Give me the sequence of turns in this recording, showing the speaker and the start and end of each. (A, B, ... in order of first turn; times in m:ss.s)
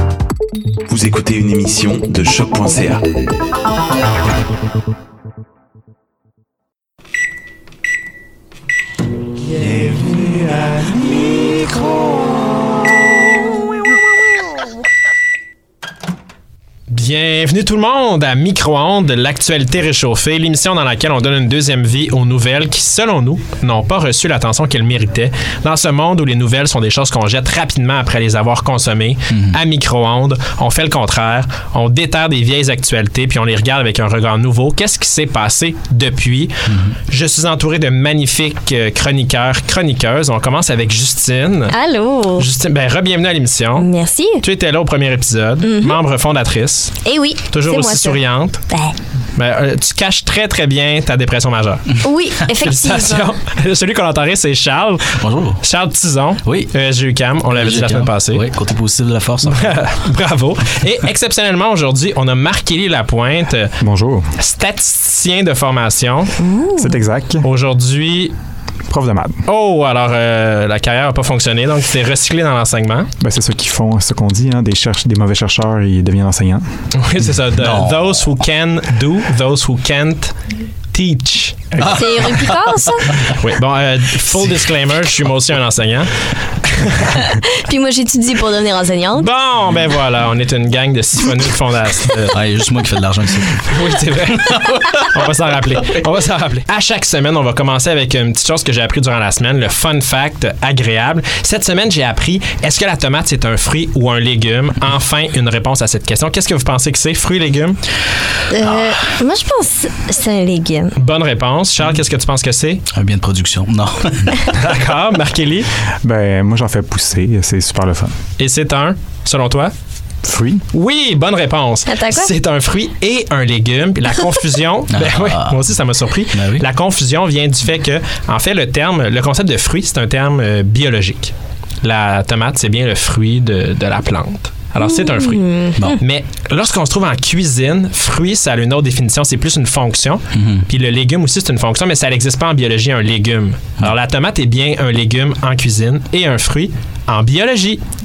0:00.9-0:03.0 A
0:16.9-0:36.5 B
0:29.3-0:29.6 C
0:36.7-0:37.0 C
0:37.1-0:41.8 B
0:41.7-0:42.5 D
0:42.4-0:43.9 B
0:43.8-0:44.4 D
0:44.4-0:48.6 B
0:45.6-0:46.0 D
0:47.0-0:49.0 D
0:49.4-0:51.9 B
0:52.0-0:53.3 D
0:52.6-0:55.1 B
0:55.2-0:55.6 C
0:55.6-0:58.4 B
0:56.4-0:56.7 C
0:57.5-0:59.8 C
0:59.4-1:03.7 B
1:03.8-1:04.3 E
1:04.4-1:06.3 B
1:06.4-1:07.0 D
1:06.8-1:07.5 E
1:07.4-1:08.4 B
1:08.9-1:09.4 E
1:09.5-1:13.1 B
1:13.2-1:16.6 E
1:17.0-1:20.4 B
1:17.6-1:18.0 C
1:20.9-1:21.9 B
1:21.8-1:22.6 C
1:21.9-1:23.1 D
1:23.2-1:26.1 B
1:26.6-1:27.2 B
1:27.2-1:29.3 D
1:29.2-1:32.4 B
1:32.3-1:33.7 C
1:33.7-1:47.8 B
1:34.4-1:35.2 C
1:48.5-1:51.0 D
1:48.6-1:49.0 C
1:51.0-1:52.8 B
1:52.9-1:54.4 C
1:54.5-1:55.7 B
1:56.0-1:58.1 E
1:58.4-1:59.7 B
2:00.2-2:00.6 E
2:00.7-2:27.8 B
2:01.9-2:02.3 D
2:04.9-2:05.6 C
2:06.3-2:06.7 C
2:14.8-2:15.9 D
2:20.3-2:20.7 C